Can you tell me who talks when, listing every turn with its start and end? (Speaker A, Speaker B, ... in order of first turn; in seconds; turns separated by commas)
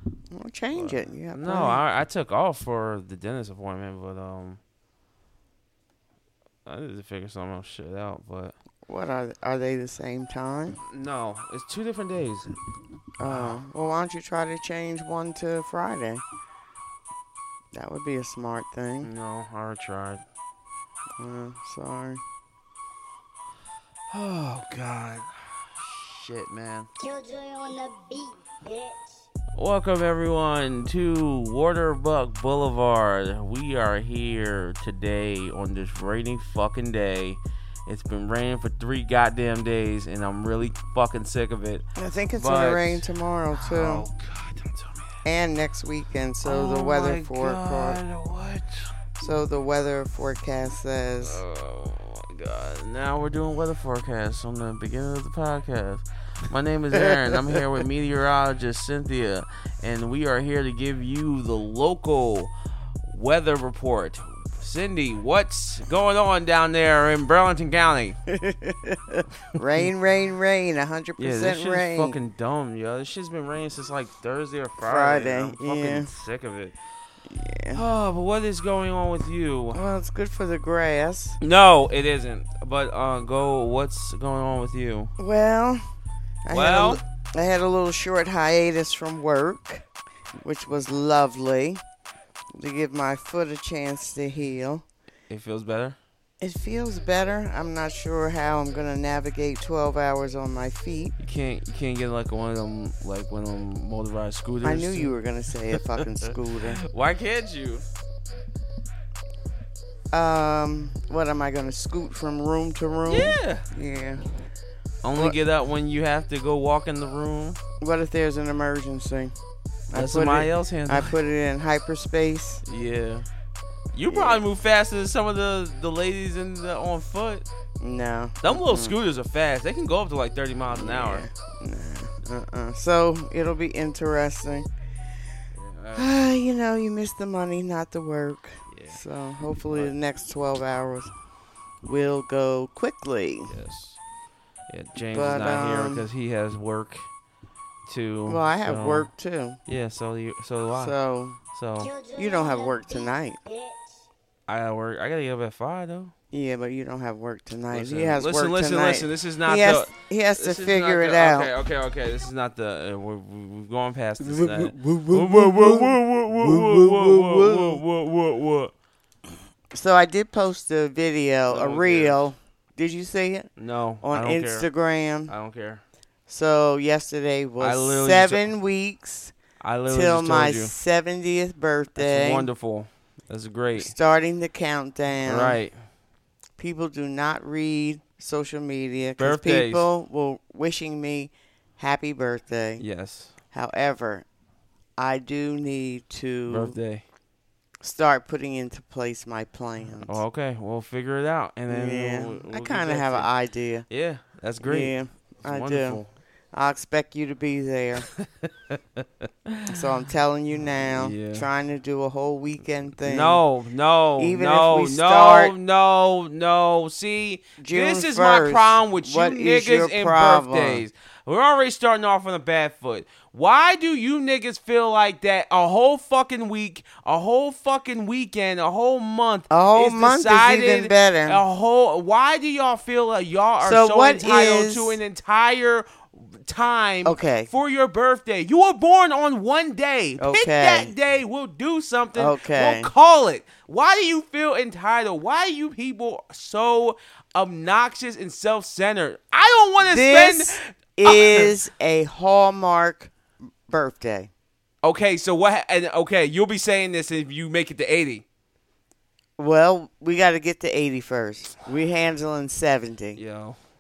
Speaker A: 0.3-1.8, Speaker B: 0.7-4.6, Speaker B: 6.7-8.6, Speaker A: 8.9-10.8, Speaker B: 10.8-12.5, Speaker A: 13.2-16.2, Speaker B: 13.2-13.6, Speaker A: 17.7-19.1, Speaker B: 19.0-20.2, Speaker A: 21.2-22.2, Speaker B: 24.1-26.9, Speaker C: 27.0-29.1, Speaker B: 29.6-41.9, Speaker A: 42.0-44.1, Speaker B: 42.4-45.2, Speaker A: 45.2-48.0, Speaker B: 46.4-48.9, Speaker A: 49.2-51.4, Speaker B: 51.2-62.5, Speaker A: 57.0-57.6, Speaker B: 63.1-68.2, Speaker A: 68.3-72.2, Speaker B: 71.2-76.8, Speaker A: 74.8-76.1, Speaker A: 77.3-77.8, Speaker B: 77.7-79.8, Speaker A: 79.7-81.4, Speaker B: 81.4-85.1, Speaker A: 85.2-85.8, Speaker A: 86.5-89.8, Speaker B: 86.5-87.0, Speaker A: 90.4-91.8, Speaker A: 92.5-94.8, Speaker B: 95.3-96.0, Speaker A: 96.4-101.2, Speaker B: 101.2-105.2, Speaker A: 104.6-106.8, Speaker B: 105.7-107.8, Speaker A: 110.1-114.2, Speaker B: 113.1-113.7, Speaker B: 115.0-117.6, Speaker A: 117.8-119.3, Speaker A: 119.9-122.6, Speaker B: 119.9-121.2, Speaker B: 122.7-123.3, Speaker B: 123.9-127.5, Speaker A: 124.1-124.4, Speaker A: 127.8-128.9, Speaker B: 128.4-131.3, Speaker A: 130.7-134.7, Speaker B: 135.5-136.1, Speaker A: 136.0-141.1, Speaker B: 138.7-139.0, Speaker A: 141.8-143.5, Speaker B: 143.5-144.0, Speaker B: 144.7-147.1, Speaker A: 145.1-146.0, Speaker B: 147.9-149.1, Speaker A: 148.3-149.6, Speaker B: 149.7-150.9, Speaker A: 150.8-151.4, Speaker B: 151.5-151.9, Speaker C: 151.8-153.9, Speaker A: 152.2-153.4, Speaker B: 154.5-156.1, Speaker A: 156.3-161.5, Speaker B: 157.7-168.7, Speaker A: 164.2-167.8, Speaker A: 169.7-173.5, Speaker B: 171.5-172.2, Speaker B: 173.6-174.7, Speaker A: 174.0-175.3, Speaker B: 175.3-175.8, Speaker A: 176.3-179.3, Speaker B: 177.6-178.4, Speaker B: 179.6-180.7, Speaker A: 179.9-182.5, Speaker B: 182.0-183.9, Speaker A: 183.8-185.6, Speaker B: 185.3-185.8, Speaker A: 186.6-192.8, Speaker B: 189.2-189.9, Speaker B: 192.8-193.3, Speaker A: 193.5-194.2, Speaker A: 195.0-196.8, Speaker B: 196.5-197.0, Speaker A: 197.8-200.2, Speaker B: 200.0-203.3, Speaker A: 201.7-203.9, Speaker B: 203.9-206.1, Speaker A: 204.6-208.1, Speaker B: 208.2-209.8, Speaker A: 209.7-213.4, Speaker B: 210.9-211.5, Speaker B: 213.1-251.5, Speaker A: 214.2-215.5, Speaker A: 217.6-220.8, Speaker A: 229.5-231.4, Speaker A: 233.6-235.0, Speaker A: 237.1-237.5, Speaker A: 240.2-240.9, Speaker A: 242.2-242.9, Speaker A: 249.8-253.1, Speaker A: 253.7-254.3, Speaker B: 254.8-258.2, Speaker A: 259.4-263.2, Speaker B: 263.2-263.6